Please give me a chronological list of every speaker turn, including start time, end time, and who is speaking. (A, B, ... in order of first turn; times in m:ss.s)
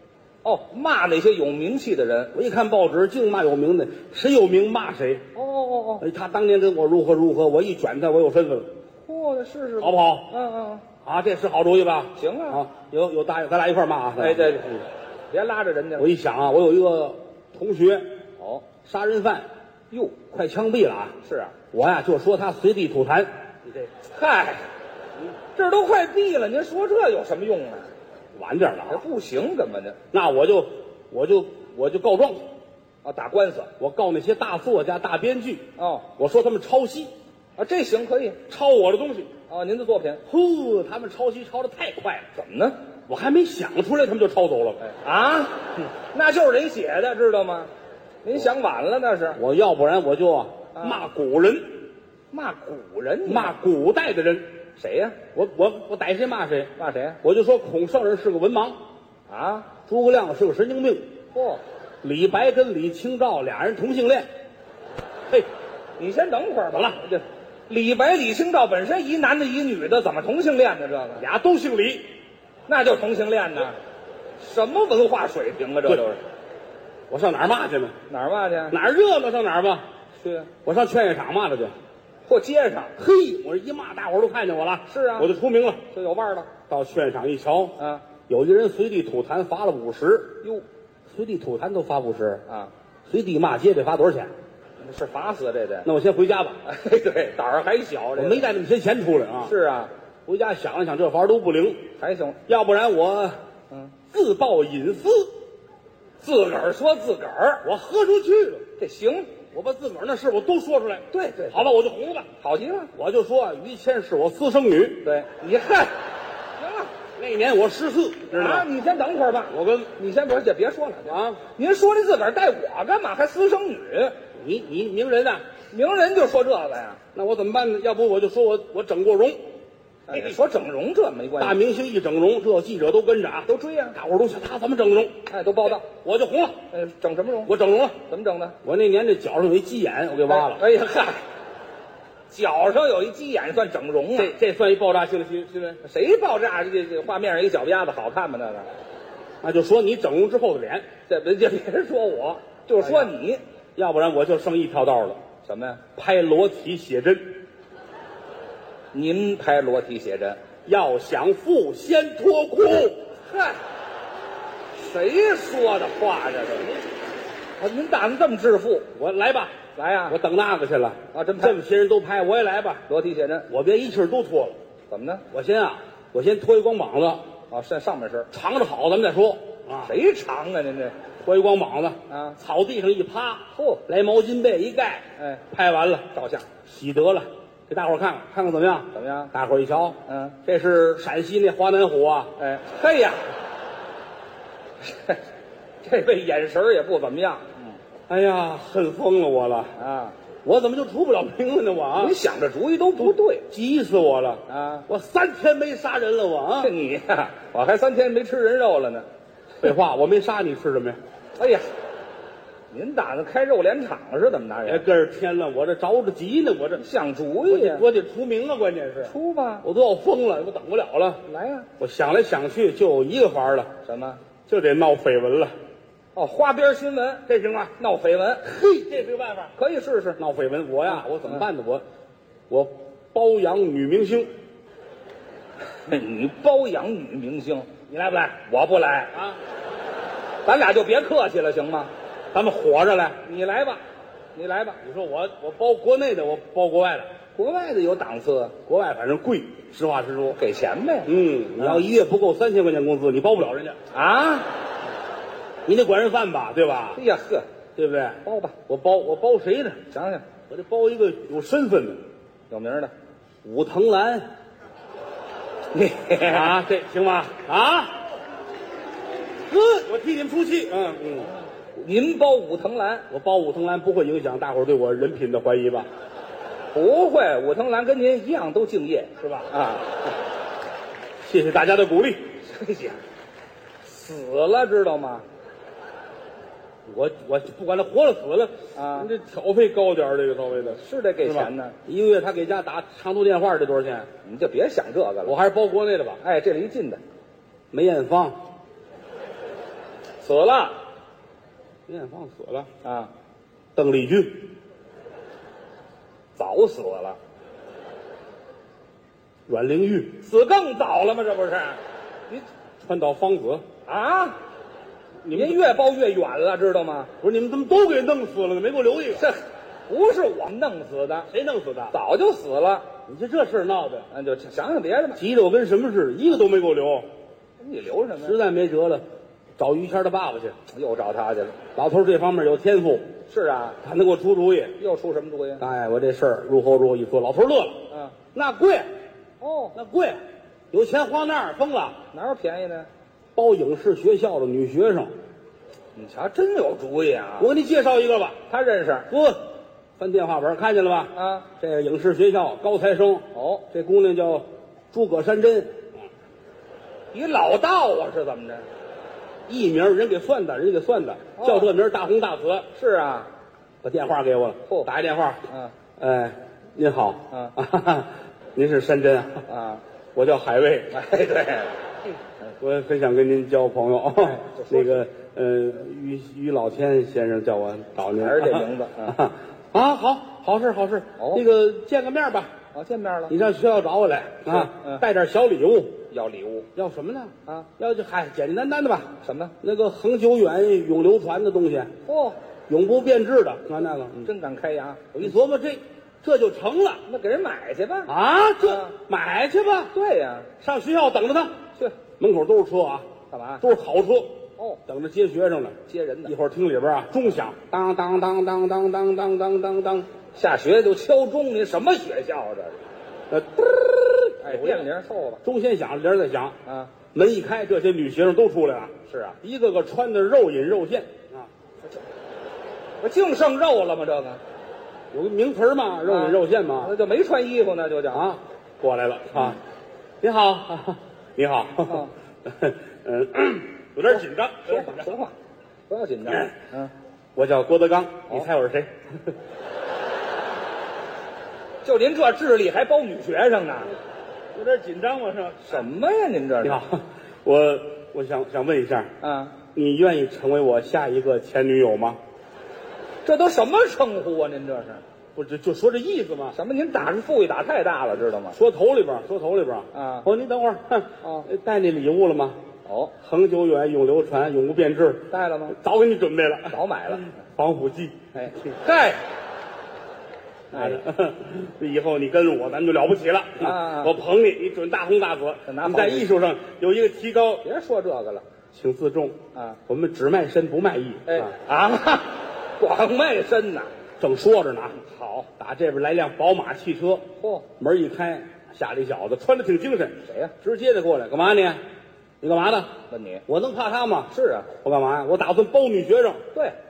0:00.4-0:02.3 A
0:02.3-0:05.2 B
0:05.3-0:06.0 A
0:06.0-0:08.7 B
0:09.0-0:10.8 A
0:09.8-0:10.3 B
0:11.0-0:14.8 B
0:12.2-0:12.6 A
0:14.2-0:16.1 A
0:16.0-0:18.2 B
0:18.4-0:18.6 A
0:18.8-0:19.5 B
0:19.9-0:20.2 A
0:20.3-0:21.2 B
0:21.2-0:21.5 A
0:21.7-0:23.9 B
0:24.0-0:24.6 A
0:25.5-0:27.9 A
0:28.3-0:29.0 B
0:28.9-0:30.0 A
0:30.1-0:32.5 B
0:33.0-0:33.7 A
0:33.8-0:37.1 B
0:35.8-0:36.0 A
0:37.6-0:38.4 A
0:38.5-0:39.3 B
0:39.5-0:40.2 A
0:40.2-0:42.3 B
0:42.3-0:42.8 A
0:43.1-0:44.8 B
0:44.8-0:47.7 A
0:48.2-0:49.4 A
0:49.3-0:51.7 B
0:50.7-0:51.0 A
0:52.3-0:53.6 A
0:53.2-0:54.5 B
0:54.8-0:55.2 A
0:55.3-0:58.8 B
0:56.8-0:57.2 A
0:59.3-0:59.7 A
0:59.8-1:01.1 B
1:01.3-1:01.6 A
1:02.0-1:04.3 B
1:06.0-1:11.2 A
1:06.7-1:07.0 B
1:11.2-1:12.0 B
1:12.7-1:13.8 A
1:14.4-1:16.2 A
1:17.1-1:18.0 B
1:18.1-1:18.8 A
1:18.7-1:19.8 B
1:20.2-1:20.5 A
1:20.6-1:21.7 B
1:22.2-1:22.9 A
1:23.0-1:25.8 B
1:24.9-1:25.3 A
1:25.9-1:26.5 A
1:26.7-1:27.8 B
1:27.8-1:28.0 A
1:28.3-1:30.4 B
1:31.1-1:32.4 B
1:32.5-1:32.7 A
1:33.1-1:34.3 B
1:34.8-1:35.9 A
1:35.8-1:36.6 B
1:36.6-1:38.5 A
1:38.2-1:39.5 B
1:39.4-1:39.9 A
1:40.2-1:41.8 B
1:42.0-1:42.4 A
1:42.5-1:43.4 B
1:43.7-1:43.9 A
1:44.1-1:45.3 B
1:46.2-1:47.6 A
1:47.6-1:48.7 B
1:48.8-1:49.3 A
1:49.5-1:52.3 B
1:51.1-1:51.8 A
1:52.4-1:52.9 A
1:52.9-1:55.1 B
1:55.0-1:55.9 A
1:56.6-1:56.9 A
1:57.2-1:58.7 B
1:58.3-2:04.2 A
1:59.5-1:59.9 B
2:01.1-2:01.4 B
2:04.4-2:05.4 B
2:05.7-2:07.0 A
2:07.1-2:09.4 B
2:10.1-2:11.6 A
2:10.1-2:10.4 B
2:11.4-2:15.2 B
2:13.4-2:14.0 A
2:15.3-2:15.8 A
2:15.8-2:16.6 B
2:16.7-2:18.6 A
2:17.4-2:18.0 B
2:18.6-2:20.6 B
2:20.3-2:21.2 A
2:22.3-2:24.3 A
2:24.1-2:25.8 B
2:25.8-2:28.7 A
2:29.4-2:30.9 B
2:31.1-2:33.4 A
2:32.8-2:33.1 B
2:33.8-2:35.2 B
2:35.4-2:35.8 A
2:36.0-2:37.4 B
2:38.9-2:40.4 A
2:40.6-2:43.0 B
2:43.2-2:43.6 A
2:44.7-2:46.8 A
2:47.6-2:48.8 A
2:48.9-2:49.6 B
2:49.7-2:50.2 A
2:50.1-2:52.8 B
2:51.1-2:51.6 A
2:52.9-2:53.5 A
2:53.5-2:54.6 B
2:54.9-2:55.2 A
2:55.3-2:57.2 B
2:57.5-2:58.3 A
2:58.3-2:59.9 B
2:59.8-3:01.0 A
3:01.2-3:06.1 B
3:02.1-3:02.4 A
3:03.5-3:03.8 A
3:06.1-3:06.5 A
3:06.6-3:12.3 B
3:08.9-3:09.3 A
3:10.0-3:10.4 A
3:12.4-3:13.2 A
3:14.8-3:15.2 A
3:15.8-3:17.8 A
3:18.1-3:19.7 B
3:19.8-3:20.1 A
3:20.4-3:22.2 B
3:22.0-3:23.5 A
3:23.0-3:26.7 B
3:24.5-3:24.8 A
3:26.6-3:29.1 A
3:29.6-3:31.0 B
3:31.4-3:31.7 A
3:32.7-3:34.8 A
3:34.6-3:36.8 B
3:36.8-3:37.8 A
3:37.4-3:41.2 B
3:39.0-3:39.6 A
3:41.2-3:41.7 A
3:41.8-3:43.7 B
3:43.8-3:44.2 A
3:44.5-3:45.5 B
3:46.1-3:47.2 A
3:47.3-3:47.7 B
3:47.8-3:48.4 A
3:48.4-3:49.5 B
3:49.6-3:50.2 A
3:50.2-3:51.8 B
3:52.5-3:54.3 B
3:55.8-3:57.7 A
3:57.9-3:58.4 B
3:58.4-3:59.1 A
4:00.4-4:01.9 A
4:02.3-4:03.2 B
4:03.2-4:03.8 A
4:04.3-4:04.8 A
4:04.8-4:07.1 B
4:07.4-4:08.5 A
4:08.6-4:10.4 B
4:10.3-4:11.8 A
4:11.0-4:13.8 B
4:13.9-4:14.5 A
4:15.6-4:17.0 B
4:16.9-4:17.4 A
4:17.8-4:19.8 B
4:18.2-4:18.6 A
4:19.9-4:20.2 A
4:20.5-4:22.0 B
4:22.5-4:22.9 A
4:23.4-4:24.3 B
4:25.7-4:26.6 A
4:26.2-4:28.0 B
4:29.5-4:31.3 B
4:31.8-4:33.1 A
4:33.1-4:35.9 B
4:36.7-4:40.0 A
4:39.2-4:39.5 B
4:41.2-4:42.2 B
4:42.4-4:43.0 A
4:43.8-4:45.2 A
4:46.9-4:54.1 B
4:48.8-4:49.1 A
4:50.6-4:51.8 A
4:54.2-4:55.3 A
4:55.2-4:56.2 B
4:56.2-4:57.0 A
4:57.7-4:58.4 B
5:00.2-5:00.8 A
5:01.9-5:02.7 B
5:02.8-5:03.1 A
5:03.7-5:04.5 B
5:06.4-5:07.2 A
5:09.5-5:10.2 B
5:10.2-5:11.8 A
5:12.8-5:13.6 B
5:13.8-5:14.4 A
5:15.2-5:15.7 B
5:15.3-5:17.1 A
5:17.2-5:19.2 B
5:19.1-5:21.3 A
5:21.3-5:21.9 B
5:21.9-5:22.9 A
5:23.0-5:24.1 B
5:24.1-5:25.2 A
5:25.2-5:27.1 B
5:27.6-5:28.4 A
5:28.2-5:29.0 B
5:29.6-5:30.6 B
5:30.7-5:31.6 A
5:31.7-5:33.1 B
5:33.3-5:33.8 A
5:33.8-5:34.7 B
5:34.8-5:35.6 A
5:35.6-5:38.9 B
5:37.9-5:38.2 A
5:39.4-5:39.8 A
5:39.7-5:40.2 B
5:40.7-5:42.0 B
5:42.1-5:42.9 A
5:43.3-5:45.1 B
5:45.9-5:47.5 A
5:47.4-5:48.4 B
5:48.5-5:49.1 A
5:49.1-5:55.9 B
5:51.1-5:51.5 A
5:53.3-5:53.6 A
5:57.1-5:58.6 A
5:59.5-6:02.7 B
6:01.4-6:01.7 A
6:02.7-6:03.3 A
6:03.8-6:05.4 B
6:04.6-6:04.9 A
6:05.5-6:05.7 A
6:06.0-6:09.4 B
6:09.4-6:09.8 A
6:10.1-6:10.9 B
6:10.9-6:11.7 A
6:12.6-6:22.5 B
6:14.2-6:15.0 A
6:18.1-6:19.2 A
6:21.2-6:21.4 A
6:22.7-6:23.3 A
6:23.3-6:26.0 B
6:24.5-6:25.0 A
6:26.1-6:26.7 A
6:26.7-6:31.9 B
6:29.2-6:29.5 A
6:32.0-6:32.4 A
6:32.7-6:34.3 B
6:34.2-6:35.1 A
6:35.1-6:37.0 B
6:37.0-6:38.9 A
6:38.1-6:39.9 B
6:39.9-6:40.5 A
6:40.6-6:41.5 B
6:42.2-6:43.1 B
6:43.3-6:43.6 A
6:43.6-6:45.7 B
6:45.9-6:46.3 A
6:46.2-6:50.1 B
6:50.3-6:52.8 A
6:53.3-6:54.9 B
6:54.4-6:55.4 A
6:55.4-6:56.5 B
6:56.6-6:56.9 A
6:57.1-7:01.5 B
6:59.1-6:59.4 A
7:03.0-7:04.4 A
7:05.1-7:06.9 B
7:06.0-7:08.2 A
7:08.1-7:09.6 B
7:10.2-7:15.1 B
7:11.8-7:12.1 A
7:14.6-7:15.3 A
7:15.9-7:16.9 A
7:16.3-7:16.5 B
7:17.3-7:19.3 B
7:21.8-7:23.9 A
7:24.5-7:25.9 B
7:25.6-7:26.8 A
7:26.6-7:29.1 B
7:29.2-7:29.6 A
7:29.7-7:32.2 B
7:33.2-7:35.0 A
7:35.3-7:36.6 B
7:36.5-7:38.6 A
7:38.5-7:42.6 B
7:39.9-7:40.3 A
7:41.2-7:41.5 A
7:42.8-7:43.1 A
7:43.2-7:48.5 B
7:45.3-7:45.8 A
7:46.7-7:47.3 A
7:48.3-7:49.2 A
7:50.7-7:57.6 B
7:50.7-7:51.0 A
7:53.6-7:54.1 A
7:55.6-7:56.3 A
7:57.6-7:58.4 A
7:58.7-8:01.5 B
7:59.5-7:59.8 A
8:01.3-8:03.9 A
8:04.2-8:05.0 B
8:04.9-8:05.5 A
8:05.6-8:07.2 B
8:07.4-8:07.6 A
8:07.8-8:11.8 B
8:10.2-8:10.5 A
8:12.4-8:12.9 B
8:13.1-8:13.4 A
8:13.5-8:16.4 B
8:14.3-8:14.7 A